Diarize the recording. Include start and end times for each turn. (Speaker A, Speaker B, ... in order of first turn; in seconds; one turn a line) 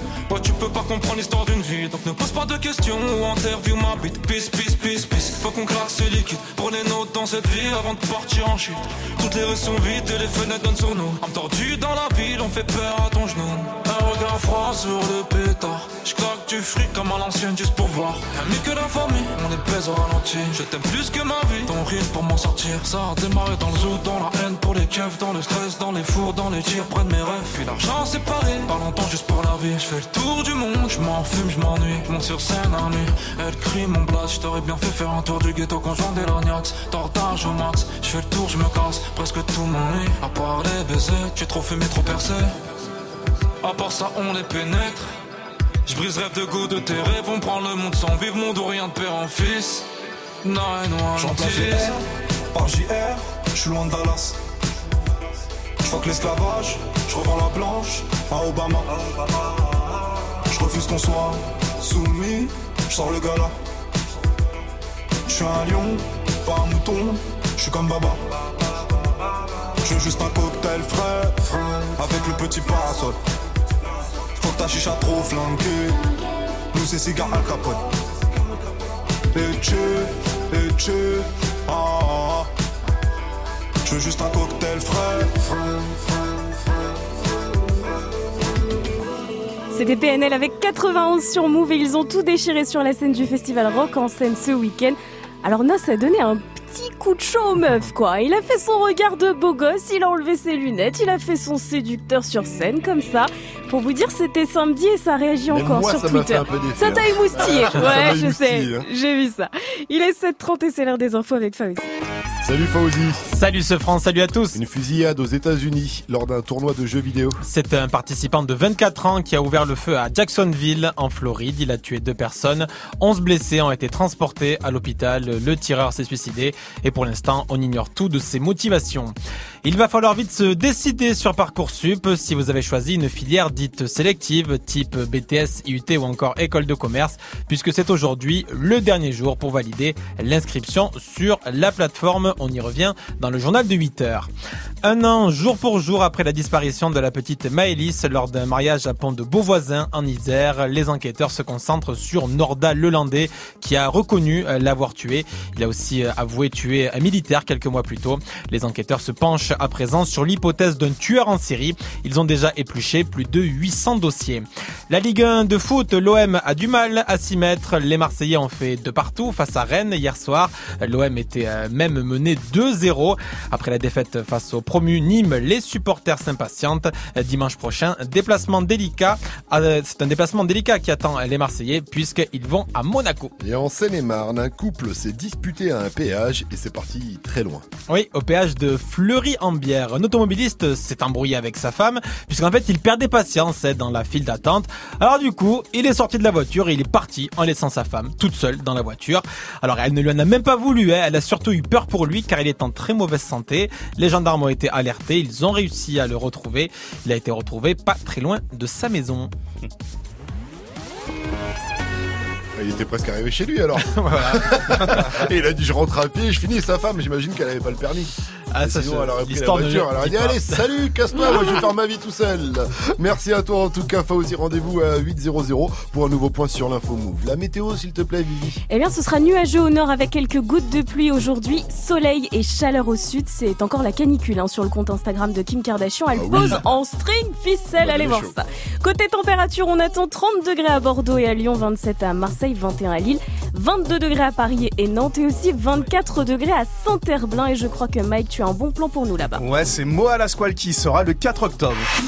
Speaker A: 0.3-42.5
Speaker A: 43.6-45.1
Speaker A: 45.9-49.9
Speaker A: 50.4-51.9
Speaker B: 51.1-54.4
Speaker B: 55.8-63.6
Speaker B: 65.3-68.9
Speaker B: 69.8-73.2
Speaker B: 74.4-76.0
Speaker B: 76.7-77.9
Speaker B: 79.3-82.5
Speaker B: 83.8-85.4
Speaker C: 89.7-111.9
Speaker D: 105.5-108.9
Speaker D: 112.4-113.2
Speaker E: 113.3-114.6
Speaker D: 114.5-117.4
Speaker E: 117.4-144.3
Speaker E: 144.8-183.3
Speaker D: 183.4-187.7
Speaker E: 187.9-209.3
Speaker D: 212.6-228.6
Speaker E: 213.8-215.0
Speaker E: 218.5-220.5
Speaker C: 228.7-249.4
Speaker D: 236.2-236.7
Speaker D: 237.8-238.3
Speaker F: 249.4-251.9